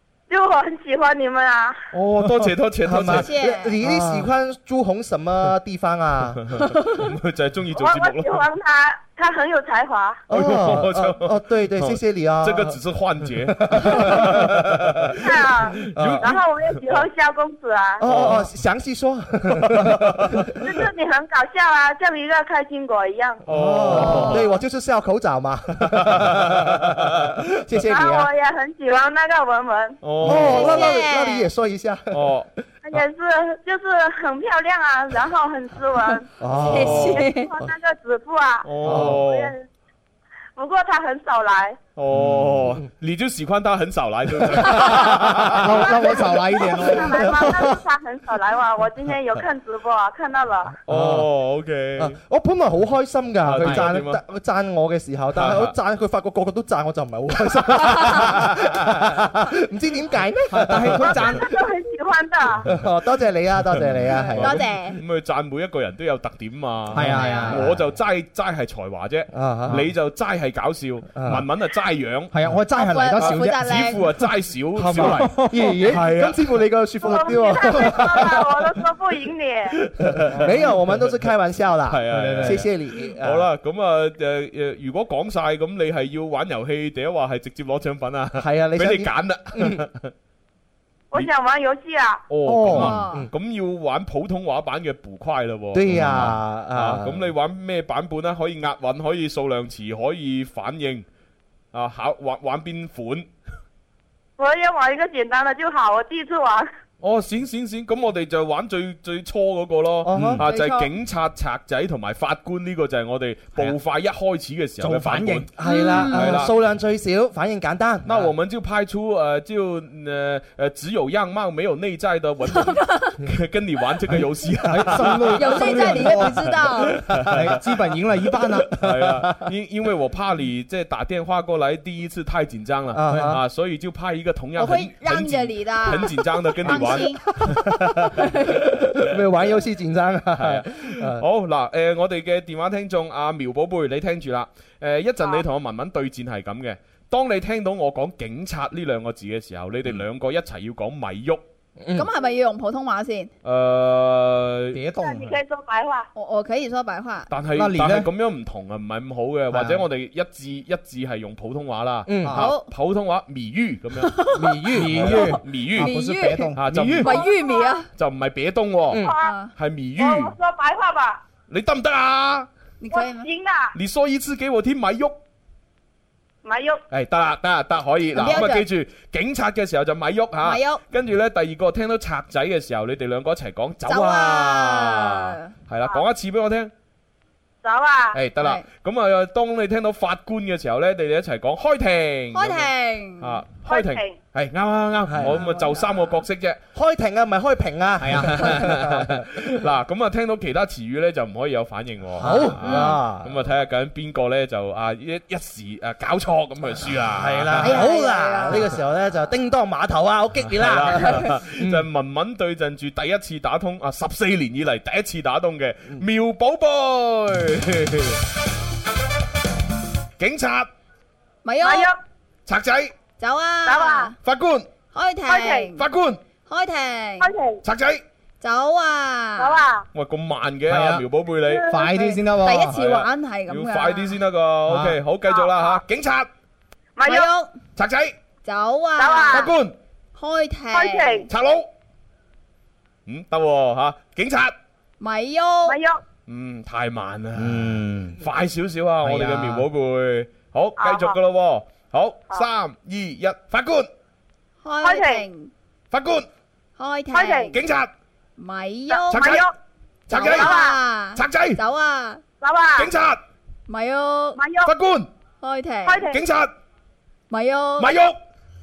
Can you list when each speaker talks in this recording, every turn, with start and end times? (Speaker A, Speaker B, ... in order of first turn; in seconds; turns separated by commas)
Speaker A: 0.3-1.8, Speaker B: 1.9-3.3, Speaker C: 2.4-6.4, Speaker D: 3.0-3.7, Speaker B: 6.4-8.4, Speaker A: 7.7-10.2, Speaker C: 10.3-12.8, Speaker B: 10.3-15.2, Speaker C: 13.5-15.2, Speaker A: 15.2-18.0, Speaker B: 15.8-17.0, Speaker C: 15.8-16.4, Speaker C: 18.0-20.5, Speaker B: 18.0-18.5, Speaker B: 19.7-20.5, Speaker A: 20.6-23.4, Speaker B: 23.4-24.4, Speaker C: 23.4-28.3, Speaker B: 25.9-27.4, Speaker A: 27.8-30.0, Speaker B: 30.0-30.9, Speaker C: 30.2-32.2, Speaker D: 30.2-31.5, Speaker B: 32.1-32.5, Speaker A: 32.8-36.3, Speaker C: 36.4-37.7, Speaker B: 36.5-37.2, Speaker D: 36.7-37.5, Speaker A: 37.3-39.6, Speaker B: 38.6-39.5, Speaker C: 38.8-39.2, Speaker A: 40.5-41.8, Speaker B: 42.0-45.7, Speaker C: 42.1-42.8, Speaker C: 44.4-45.6, Speaker E: 45.6-47.1, Speaker A: 45.9-46.2, Speaker A: 46.7-50.8, Speaker C: 46.9-47.8, Speaker C: 50.9-51.3, Speaker B: 50.9-52.2, Speaker C: 52.0-61.2, Speaker B: 53.4-54.2, Speaker E: 53.6-53.9, Speaker B: 55.4-55.7, Speaker E: 60.5-61.4, Speaker A: 61.0-62.6, Speaker C: 62.6-64.7, Speaker B: 63.7-72.3, Speaker D: 64.4-65.0, Speaker E: 66.9-67.6, Speaker D: 67.1-67.6, Speaker C: 67.5-67.8, Speaker C: 69.3-69.8, Speaker C: 71.1-71.4, Speaker E: 72.3-73.8, Speaker D: 72.7-74.0, Speaker B: 73.2-76.5, Speaker C: 74.7-78.5, Speaker E: 74.8-75.9, Speaker A: 77.0-79.8, Speaker B: 77.6-78.3, Speaker B: 79.8-80.5, Speaker C: 80.1-83.5, Speaker B: 81.9-90.1, Speaker E: 82.1-82.7, Speaker C: 88.4-89.8, Speaker A: 91.1-92.2, Speaker B: 92.3-101.0, Speaker E: 92.5-93.0, Speaker C: 92.7-93.3, Speaker D: 92.7-93.2, Speaker C: 95.7-97.3, Speaker B: 101.7-103.3, Speaker A: 104.4-106.7, Speaker B: 107.0-116.5, Speaker C: 110.0-110.4, Speaker E: 110.1-110.4, Speaker D: 110.4-110.9, Speaker E: 114.8-115.5, Speaker C: 115.6-118.3, Speaker D: 115.6-116.4, Speaker B: 118.0-126.4, Speaker E: 124.7-126.5, Speaker D: 125.3-127.0, Speaker B: 127.0-127.3, Speaker E: 127.3-128.8, Speaker B: 128.7-137.7, Speaker C: 132.9-133.4, Speaker E: 133.1-133.4, Speaker D: 134.6-137.4, Speaker C: 137.4-141.2, Speaker D: 138.2-138.6, Speaker B: 140.4-151.4, Speaker C: 151.8-152.1, Speaker D: 151.9-153.3, Speaker B: 153.4-154.8, Speaker E: 154.7-155.3, Speaker A: 155.0-156.1, Speaker D: 156.2-157.3, Speaker B: 157.3-164.1, Speaker E: 157.6-158.1, Speaker E: 159.5-159.8, Speaker C: 162.1-162.4, Speaker D: 162.3-162.7, Speaker D: 164.0-167.9, Speaker E: 164.3-167.1, Speaker B: 164.8-165.9, Speaker B: 166.6-167.2, Speaker A: 167.1-167.8, Speaker B: 167.9-170.3, Speaker A: 168.9-169.3, Speaker D: 169.1-169.5, Speaker A: 170.0-171.2, Speaker B: 171.5-172.5, Speaker D: 172.8-173.3, Speaker A: 172.9-173.7, Speaker B: 173.7-175.2, Speaker A: 176.4-176.8, Speaker B: 176.9-186.7, Speaker D: 178.1-178.7, Speaker D: 180.4-180.8, Speaker D: 183.9-185.5, Speaker A: 187.6-188.2, Speaker B: 188.1-196.6, Speaker D: 188.4-188.6, Speaker D: 192.3-193.4, Speaker A: 193.6-194.2, Speaker C: 195.1-195.4, Speaker D: 195.3-196.0, Speaker C: 196.7-199.2, Speaker E: 198.0-198.4, Speaker B: 198.1-207.9, Speaker C: 202.2-203.3, Speaker D: 202.6-203.0, Speaker C: 207.1-211.8, Speaker D: 207.6-208.8, Speaker B: 210.4-218.2, Speaker B: 220.2-220.7, Speaker D: 221.4-221.9, Speaker A: 221.6-222.0, Speaker B: 222.4-222.9, Speaker D: 223.2-224.1, Speaker A: 223.7-224.1, Speaker B: 224.2-224.7, Speaker D: 224.9-225.8, Speaker A: 225.3-225.7, Speaker B: 225.7-226.2, Speaker D: 226.5-227.3, Speaker A: 227.2-227.6, Speaker B: 227.6-228.0, Speaker D: 228.4-229.6, Speaker A: 229.4-229.8, Speaker B: 229.9-231.7, Speaker E: 230.7-231.0, Speaker E: 231.7-232.8, Speaker D: 231.8-234.2, Speaker B: 232.7-236.3, Speaker E: 234.7-235.0, Speaker A: 235.3-235.8, Speaker A: 237.0-237.3, Speaker D: 237.1-237.5, Speaker B: 237.8-238.1, Speaker D: 238.4-239.5, Speaker A: 239.0-239.5, Speaker B: 239.3-239.8, Speaker D: 240.2-241.2, Speaker A: 240.7-241.2, Speaker B: 241.3-241.7, Speaker B: 243.1-244.5, Speaker D: 245.0-245.8, Speaker A: 245.7-246.0, Speaker B: 246.3-253.9, Speaker E: 247.4-248.2, Speaker E: 249.0-249.7, Speaker A: 250.8-251.2, Speaker D: 254.6-255.5, Speaker A: 254.8-255.2, Speaker B: 255.9-256.3, Speaker D: 256.8-257.5, Speaker A: 257.1-257.5, Speaker B: 257.5-257.9, Speaker D: 258.4-259.4, Speaker A: 258.9-259.5, Speaker B: 259.1-259.5, Speaker B: 260.1-260.6, Speaker D: 260.1-262.2, Speaker A: 260.2-260.8, Speaker B: 261.1-261.6, Speaker A: 262.4-262.9, Speaker B: 262.8-263.2, Speaker D: 263.7-264.4, Speaker A: 264.4-264.7, Speaker B: 264.6-265.1, Speaker D: 265.4-266.1, Speaker A: 265.9-266.2, Speaker B: 266.1-266.5, Speaker D: 267.3-268.0, Speaker B: 267.8-268.1